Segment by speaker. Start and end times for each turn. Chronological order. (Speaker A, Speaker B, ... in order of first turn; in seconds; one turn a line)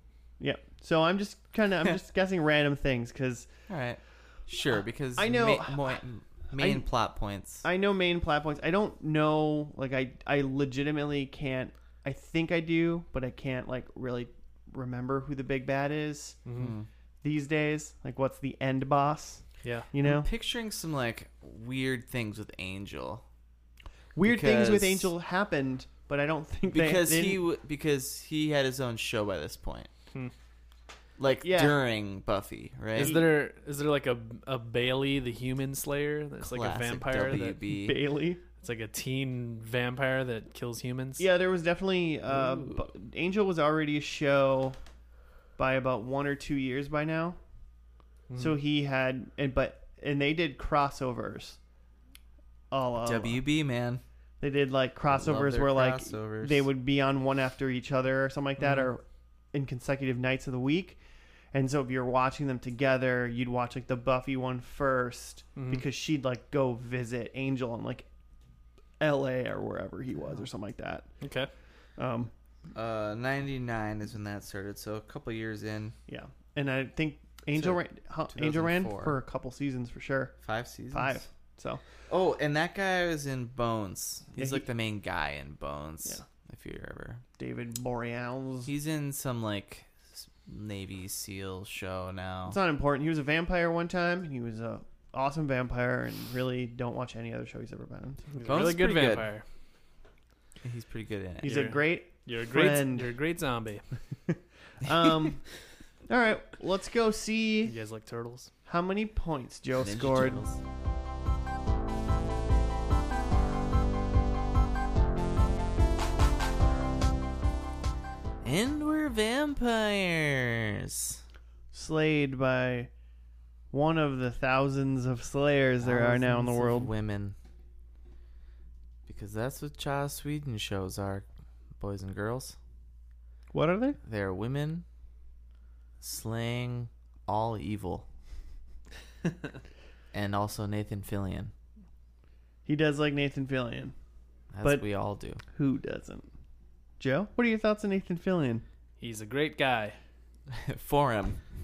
Speaker A: 0.4-3.5
Speaker B: 3.7-7.7
Speaker A: 5.2-6.9
Speaker A: 7.6-16.4
Speaker C: 16.4-16.7
Speaker B: 16.6-16.9
Speaker A: 17.2-20.3
Speaker C: 19.6-19.9
Speaker B: 20.0-23.2
Speaker A: 24.1-27.4
Speaker B: 24.2-25.1
Speaker B: 26.7-29.9
Speaker B: 31.2-33.2
Speaker A: 31.4-31.8
Speaker C: 33.0-37.6
Speaker A: 33.0-33.3
Speaker B: 36.4-38.0
Speaker A: 37.7-38.4
Speaker C: 38.6-41.3
Speaker A: 41.2-44.8
Speaker B: 42.3-42.8
Speaker A: 45.6-47.4
Speaker C: 48.3-48.6
Speaker A: 48.4-51.6
Speaker A: 52.7-53.4
Speaker B: 53.0-54.0
Speaker A: 54.4-61.0
Speaker B: 55.1-56.7
Speaker C: 58.6-58.9
Speaker A: 61.5-68.1
Speaker C: 65.6-65.8
Speaker A: 69.0-71.1
Speaker C: 71.2-71.5
Speaker A: 72.0-72.3
Speaker B: 72.7-76.0
Speaker A: 76.1-80.4
Speaker B: 77.5-77.8
Speaker B: 78.3-79.2
Speaker B: 80.4-81.2
Speaker A: 80.9-81.8
Speaker B: 82.1-87.2
Speaker A: 84.4-84.7
Speaker A: 87.4-88.7
Speaker B: 88.7-92.6
Speaker A: 92.5-98.4
Speaker C: 98.3-99.5
Speaker B: 98.4-99.3
Speaker B: 100.6-101.7
Speaker A: 101.4-103.1
Speaker C: 101.4-103.8
Speaker A: 104.3-105.5
Speaker A: 106.1-107.7
Speaker C: 107.7-108.5
Speaker A: 108.7-110.5
Speaker B: 109.8-110.6
Speaker B: 118.4-121.2
Speaker A: 121.7-122.9
Speaker A: 123.7-126.9
Speaker B: 125.8-127.4
Speaker B: 129.1-131.3
Speaker B: 131.8-132.6
Speaker A: 133.5-134.0
Speaker B: 134.0-134.8
Speaker B: 136.0-138.1
Speaker B: 140.1-141.5
Speaker A: 142.7-143.9
Speaker B: 144.5-145.4
Speaker A: 145.5-146.3
Speaker A: 147.0-148.6
Speaker C: 149.0-150.0
Speaker B: 150.5-151.4